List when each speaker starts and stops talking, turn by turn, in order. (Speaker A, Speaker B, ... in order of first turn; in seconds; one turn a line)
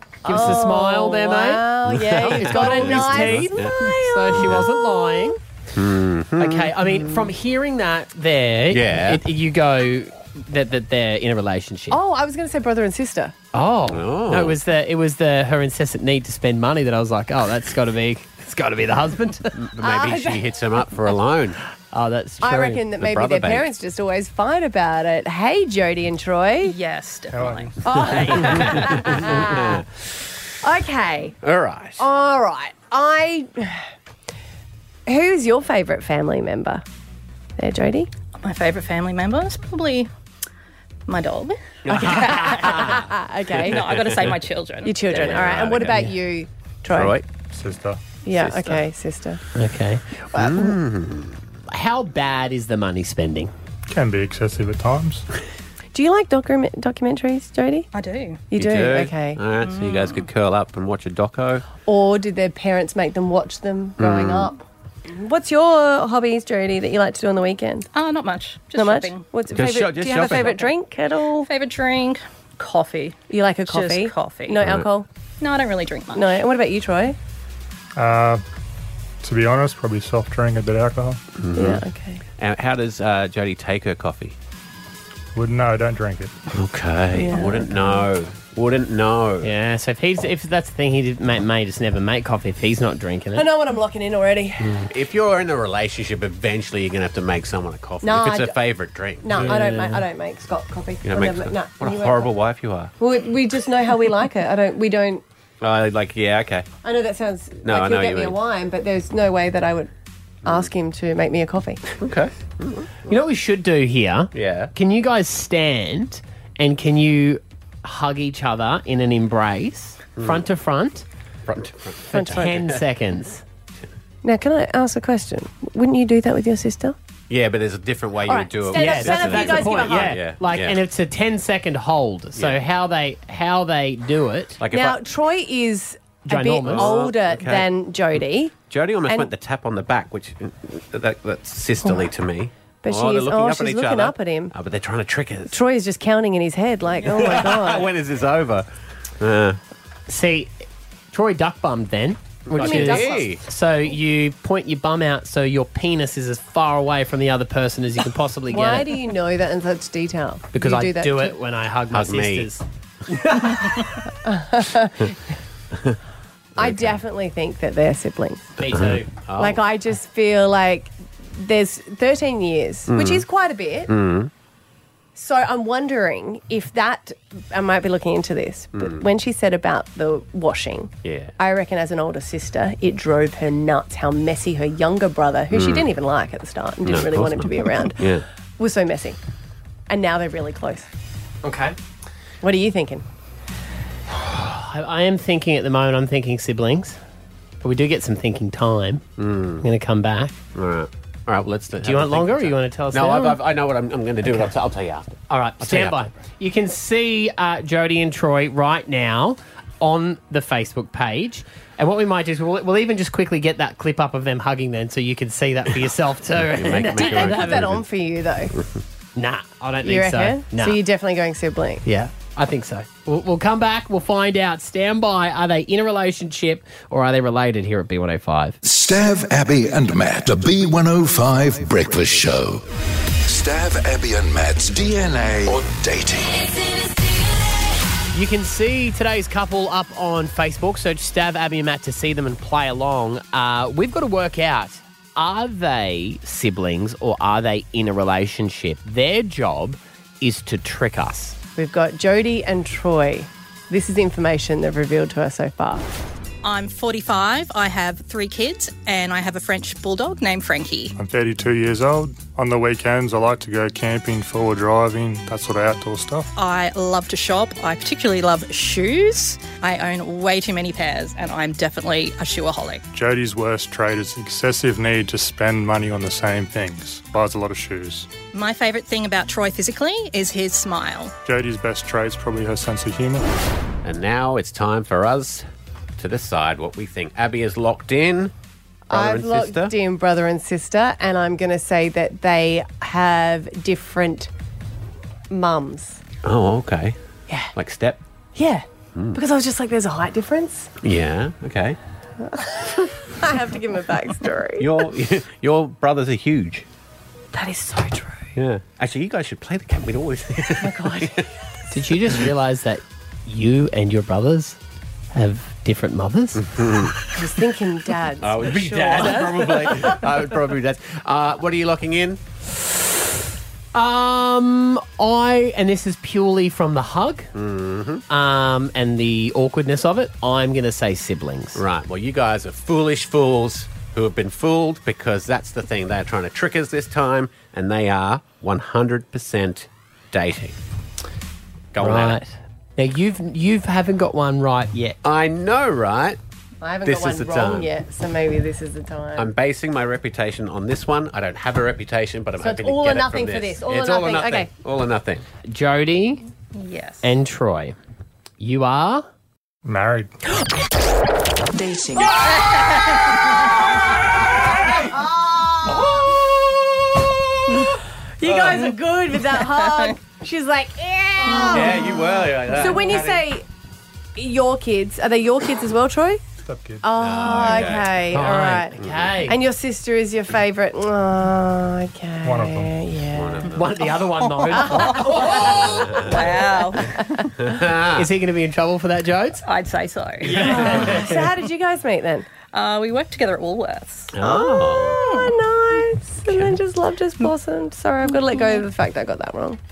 Speaker A: 0.2-1.7
Speaker B: 0.2-5.3
Speaker C: 1.8-4.7
Speaker A: 2.2-5.4
Speaker C: 5.7-7.2
Speaker A: 6.4-12.0
Speaker C: 8.7-9.2
Speaker B: 11.9-13.3
Speaker A: 13.5-19.6
Speaker C: 13.9-14.6
Speaker C: 19.6-21.6
Speaker B: 19.8-20.4
Speaker A: 21.9-22.8
Speaker B: 22.4-26.7
Speaker C: 23.0-23.7
Speaker D: 26.6-28.8
Speaker E: 27.3-27.9
Speaker B: 27.9-29.8
Speaker C: 28.6-29.9
Speaker B: 30.6-31.4
Speaker C: 31.4-32.1
Speaker B: 32.0-33.8
Speaker B: 35.1-36.8
Speaker B: 37.6-38.1
Speaker D: 38.4-40.1
Speaker D: 41.1-43.0
Speaker C: 41.9-42.9
Speaker B: 41.9-43.9
Speaker A: 42.1-42.7
Speaker D: 43.5-45.5
Speaker B: 44.8-47.2
Speaker C: 45.1-46.0
Speaker A: 45.9-46.1
Speaker C: 46.9-47.2
Speaker E: 47.5-48.0
Speaker B: 48.2-49.4
Speaker C: 48.3-48.8
Speaker A: 49.5-50.7
Speaker C: 50.3-51.4
Speaker A: 51.7-53.5
Speaker E: 53.9-55.2
Speaker B: 55.9-57.9
Speaker D: 57.9-58.4
Speaker B: 58.5-59.4
Speaker C: 58.5-61.6
Speaker D: 59.6-60.2
Speaker B: 61.8-67.9
Speaker C: 64.0-64.5
Speaker D: 67.9-69.2
Speaker B: 68.8-71.5
Speaker C: 69.5-70.7
Speaker D: 71.4-74.6
Speaker B: 73.3-75.1
Speaker C: 74.6-74.9
Speaker D: 75.4-76.4
Speaker B: 76.1-77.2
Speaker E: 78.0-78.4
Speaker E: 79.2-81.2
Speaker C: 81.4-81.8
Speaker B: 81.5-82.2
Speaker C: 82.4-84.3
Speaker E: 85.3-86.3
Speaker C: 86.5-89.5
Speaker B: 87.1-88.1
Speaker A: 89.4-93.5
Speaker B: 93.3-94.8
Speaker C: 94.9-99.8
Speaker B: 98.0-98.6
Speaker B: 99.2-102.3
Speaker A: 99.3-100.0
Speaker C: 101.0-102.9
Speaker B: 103.0-105.2
Speaker C: 105.6-106.7
Speaker B: 106.8-109.9
Speaker C: 107.6-108.4
Speaker B: 110.4-111.8
Speaker C: 112.0-113.0
Speaker A: 113.1-121.0
Speaker C: 114.3-114.7
Speaker C: 120.2-120.4
Speaker C: 121.5-122.8
Speaker A: 122.1-123.4
Speaker B: 122.1-122.5
Speaker B: 124.2-127.0
Speaker C: 127.3-130.8
Speaker B: 128.2-130.2
Speaker A: 128.7-134.6
Speaker C: 132.3-132.6
Speaker C: 134.6-135.0
Speaker B: 134.7-138.5
Speaker A: 136.2-137.1
Speaker C: 136.6-137.7
Speaker C: 138.7-145.6
Speaker B: 141.8-142.1
Speaker B: 142.8-144.5
Speaker B: 145.5-147.9
Speaker C: 147.0-148.7
Speaker C: 149.2-149.6
Speaker A: 150.1-158.9
Speaker C: 152.5-153.4
Speaker B: 152.5-153.3
Speaker B: 158.5-161.3
Speaker A: 160.5-163.7
Speaker C: 161.9-162.5
Speaker B: 164.2-165.1
Speaker B: 166.6-168.5
Speaker C: 166.6-167.0
Speaker A: 168.6-169.1
Speaker C: 168.7-169.6
Speaker B: 169.4-173.9
Speaker C: 172.9-173.2
Speaker C: 173.9-174.3
Speaker B: 175.1-189.2
Speaker C: 178.7-179.0
Speaker C: 181.0-181.3
Speaker C: 185.5-185.9
Speaker C: 186.8-188.2
Speaker B: 189.9-190.9
Speaker A: 191.4-191.7
Speaker B: 192.4-193.0
Speaker A: 194.2-197.0
Speaker A: 197.6-199.0
Speaker C: 199.2-199.6
Speaker A: 199.6-200.4
Speaker C: 200.5-206.0
Speaker A: 201.8-203.4
Speaker A: 205.3-217.8
Speaker C: 216.4-217.8
Speaker B: 216.6-218.5
Speaker A: 219.2-220.8
Speaker B: 219.8-221.8
Speaker A: 221.8-228.6
Speaker F: 228.6-232.6
Speaker F: 233.2-236.5
Speaker A: 238.1-251.4
Speaker B: 251.6-255.8
Speaker D: 256.4-260.9
Speaker E: 261.0-266.3
Speaker D: 266.4-272.8
Speaker E: 272.9-278.1
Speaker D: 278.3-281.1
Speaker E: 281.2-283.2
Speaker C: 283.8-285.4
Speaker C: 286.0-288.3
Speaker C: 288.9-289.7
Speaker B: 288.9-294.3
Speaker B: 295.3-296.0
Speaker C: 296.2-296.9
Speaker C: 297.5-298.0
Speaker B: 298.3-300.7
Speaker C: 300.8-301.8
Speaker B: 302.3-304.9
Speaker C: 304.6-306.6
Speaker B: 307.3-308.3
Speaker C: 308.4-311.2
Speaker B: 310.6-311.2
Speaker A: 311.7-314.6
Speaker A: 315.1-316.6
Speaker C: 316.4-317.0
Speaker B: 317.1-320.1
Speaker C: 318.2-322.2
Speaker A: 323.7-327.3
Speaker C: 327.3-328.0
Speaker A: 328.1-331.6
Speaker C: 331.5-340.6
Speaker C: 341.7-342.2
Speaker A: 341.8-345.0
Speaker C: 345.0-346.2
Speaker B: 346.6-349.3
Speaker C: 346.8-347.7
Speaker C: 349.1-355.2
Speaker B: 352.4-354.5
Speaker A: 355.4-356.2
Speaker D: 356.5-357.1
Speaker A: 357.0-357.8
Speaker A: 358.4-359.1
Speaker E: 359.6-360.1
Speaker D: 361.7-363.0
Speaker C: 362.0-362.3
Speaker C: 365.7-366.0
Speaker B: 368.2-373.4
Speaker C: 368.2-368.6
Speaker C: 371.2-373.3
Speaker B: 374.1-376.2
Speaker E: 376.4-376.8
Speaker B: 376.8-383.5
Speaker C: 377.0-378.2
Speaker A: 378.1-379.4
Speaker C: 378.8-379.1
Speaker E: 382.2-382.7
Speaker C: 383.1-383.9
Speaker A: 383.5-385.9
Speaker D: 384.2-386.9
Speaker B: 384.5-386.9
Speaker C: 385.6-386.2
Speaker C: 387.4-388.1
Speaker A: 387.9-389.4
Speaker D: 389.4-390.6
Speaker A: 390.3-391.2
Speaker B: 390.3-392.3
Speaker D: 392.5-394.1
Speaker C: 394.1-395.0
Speaker B: 394.2-399.6
Speaker D: 395.1-395.3
Speaker D: 398.3-398.6